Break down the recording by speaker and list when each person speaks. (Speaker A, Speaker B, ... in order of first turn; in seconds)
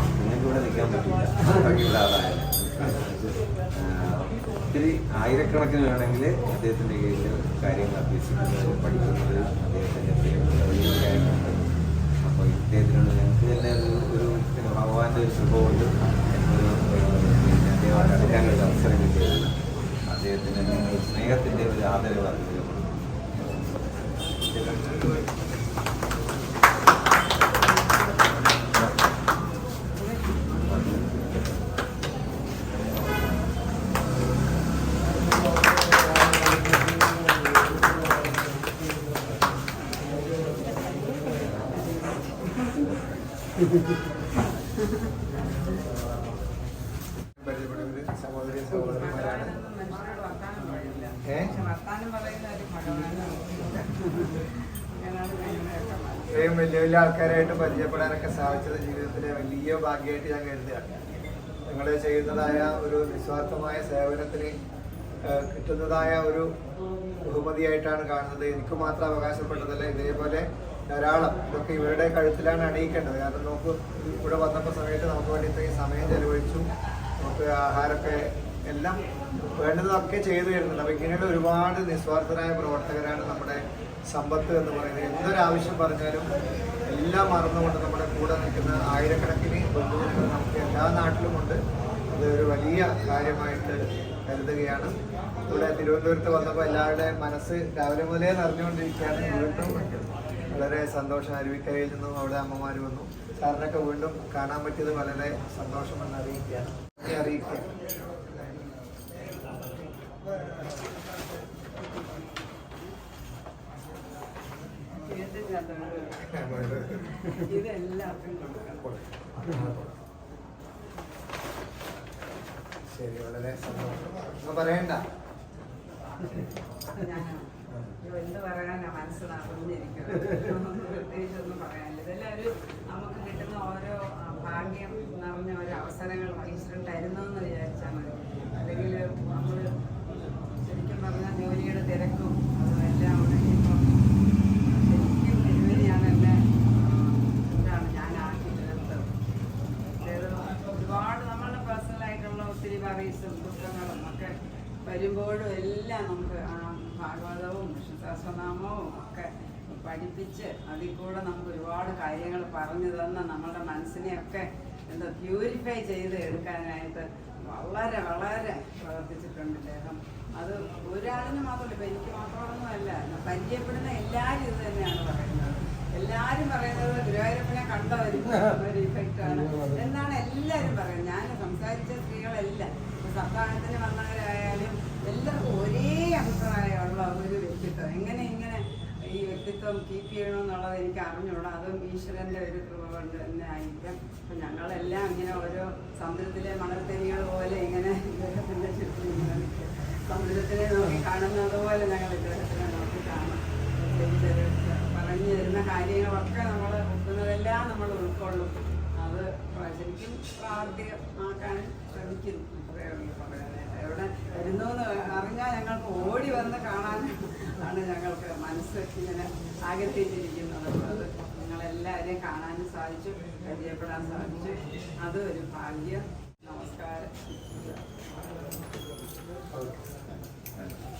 Speaker A: 0.2-11.7, 12.2-19.6, 20.1-23.0, 30.7-31.5, 230.1-230.8
Speaker B: 24.6-25.1, 47.4-49.6, 51.3-51.5, 56.3-61.0, 61.7-64.5, 65.2-66.5, 67.2-76.7, 77.2-79.0, 79.6-86.3, 86.9-99.9, 100.5-107.7, 116.3-117.1, 118.9-119.9, 122.9-125.0, 229.5-229.9
Speaker C: 41.6-43.0, 44.8-45.1, 48.8-56.6, 99.0-100.6, 111.7-113.0, 115.0-119.0, 126.9-127.5, 128.0-139.7, 140.5-143.9, 144.7-149.1, 150.0-227.8